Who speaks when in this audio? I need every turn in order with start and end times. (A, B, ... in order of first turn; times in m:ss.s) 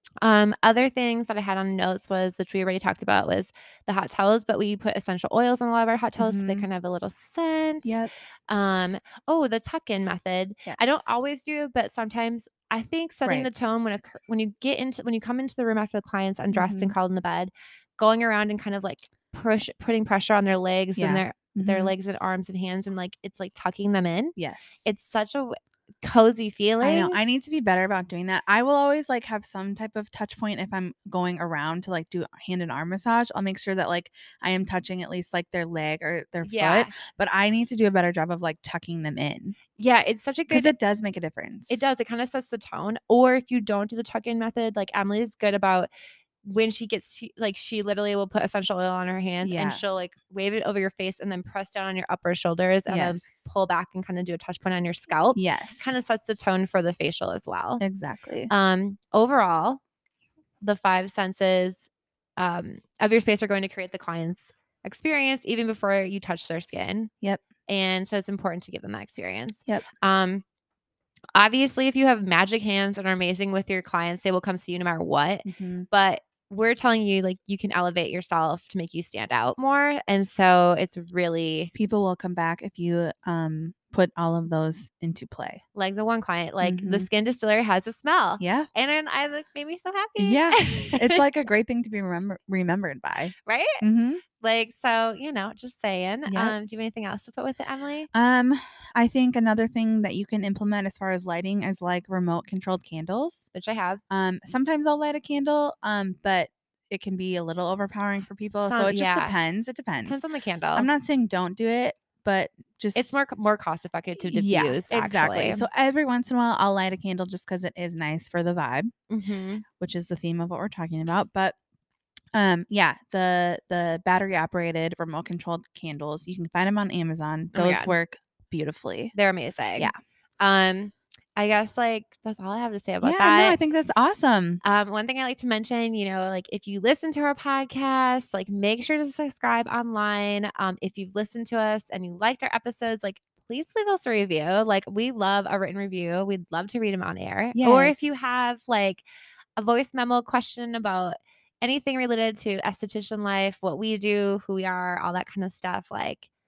0:00.2-0:27.2 A
0:06.2-0:06.7 B
0:07.8-0:08.1 B
0:10.6-0:11.1 B
0:13.2-0:13.7 B
0:16.5-0:17.0 B
0:21.0-0:21.9 B
0:24.4-0:24.8 B
0:26.8-0:39.6 B
0:36.4-0:36.9 A
0:39.8-0:40.7 A
0:40.5-0:41.8 B
0:41.7-0:45.9 A
0:46.4-0:57.8 A
0:49.4-0:49.8 B
0:52.9-0:53.5 B
0:55.3-0:56.0 B
0:57.8-0:58.5 B
0:58.5-0:59.8 A
1:00.6-1:07.1 A
1:07.7-1:10.4 A
1:11.4-1:21.7 A
1:15.4-1:15.9 B
1:21.7-1:25.6 B
1:25.7-1:31.2 A
1:26.6-1:27.1 B
1:28.4-1:28.6 B
1:30.2-1:34.2 B
1:33.4-1:33.8 A
1:34.4-1:38.1 A
1:36.3-1:36.6 B
1:38.1-1:43.5 B
1:43.5-1:44.0 A
1:44.1-1:50.2 B
1:48.6-1:49.4 A
1:50.0-1:50.9 A
1:50.7-1:53.2 B
1:52.9-1:55.7 A
1:54.2-1:58.9 B
1:59.1-1:59.6 A
1:59.8-2:01.6 B
2:02.3-2:09.1 B
2:07.5-2:08.0 A
2:09.1-2:13.6 A
2:13.0-2:14.6 B
2:14.6-2:29.0 A
2:27.5-2:28.2 B
2:29.6-2:36.3 A